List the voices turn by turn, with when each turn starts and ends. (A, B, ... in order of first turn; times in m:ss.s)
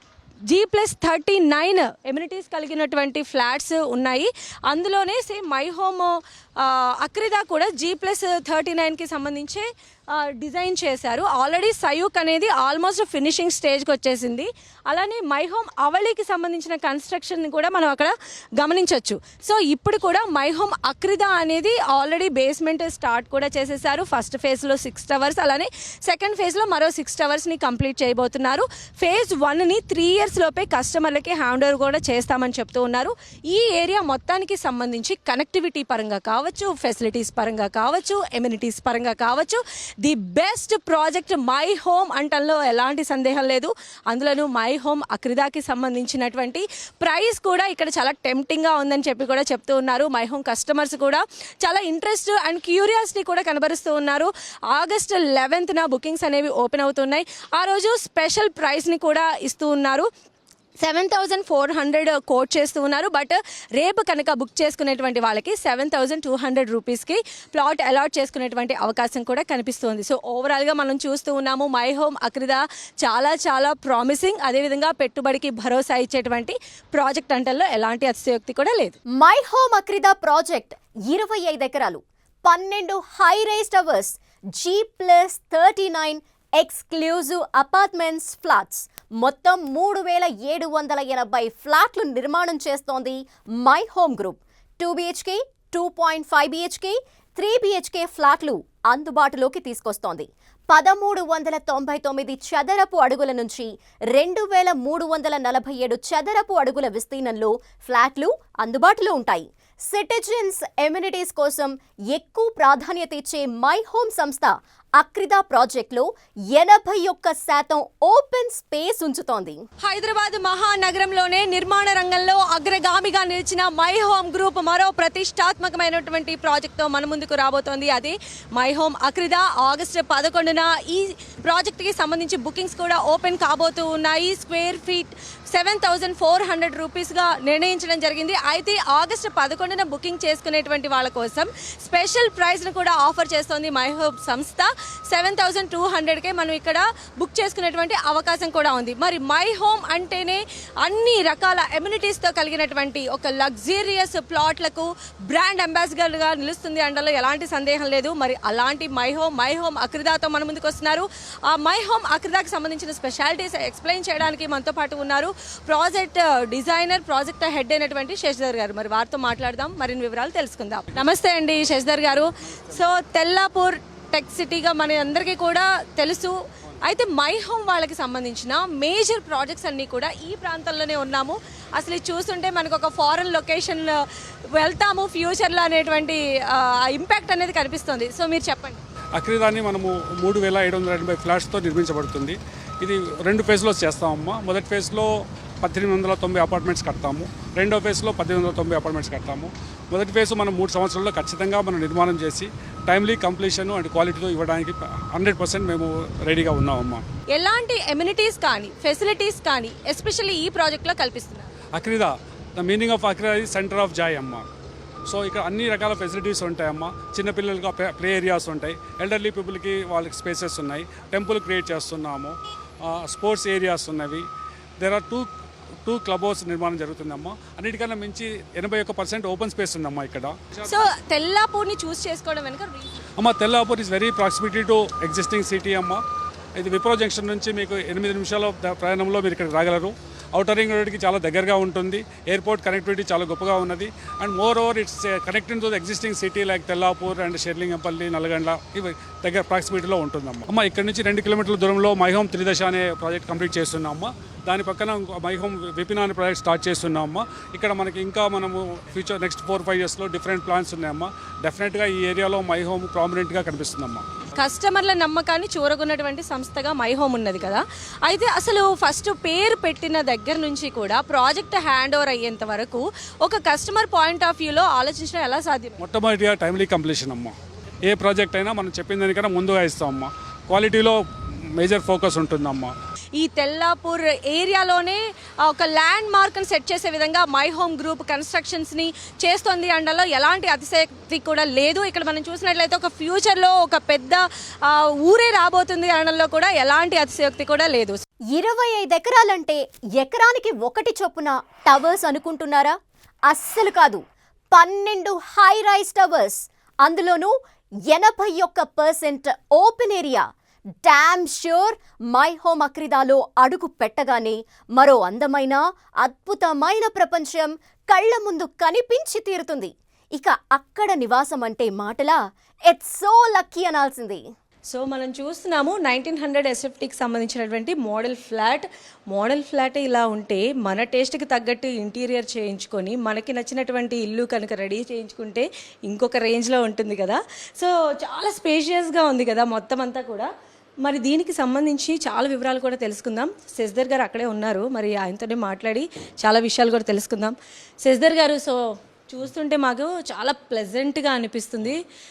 0:00.5-1:00.1 A
1:00.8-1:19.0 A
1:19.1-1:59.6 B
1:59.8-3:08.8 A
3:09.2-3:15.1 C
3:15.6-3:27.0 C
3:27.3-3:31.5 A
3:31.7-3:34.5 C
3:35.1-3:44.3 C
3:44.8-3:45.3 C
3:45.8-3:50.9 C
3:50.7-3:53.1 A
3:53.2-3:56.0 C
3:56.6-4:24.2 C
4:24.3-4:35.8 A
4:35.8-4:37.3 C
4:37.9-4:42.7 C
4:43.2-4:58.0 A
4:58.3-5:02.8 B
5:03.3-5:07.4 B
5:07.9-5:10.3 B
5:10.8-5:24.2 B
5:24.7-5:40.3 A
5:40.8-5:51.8 A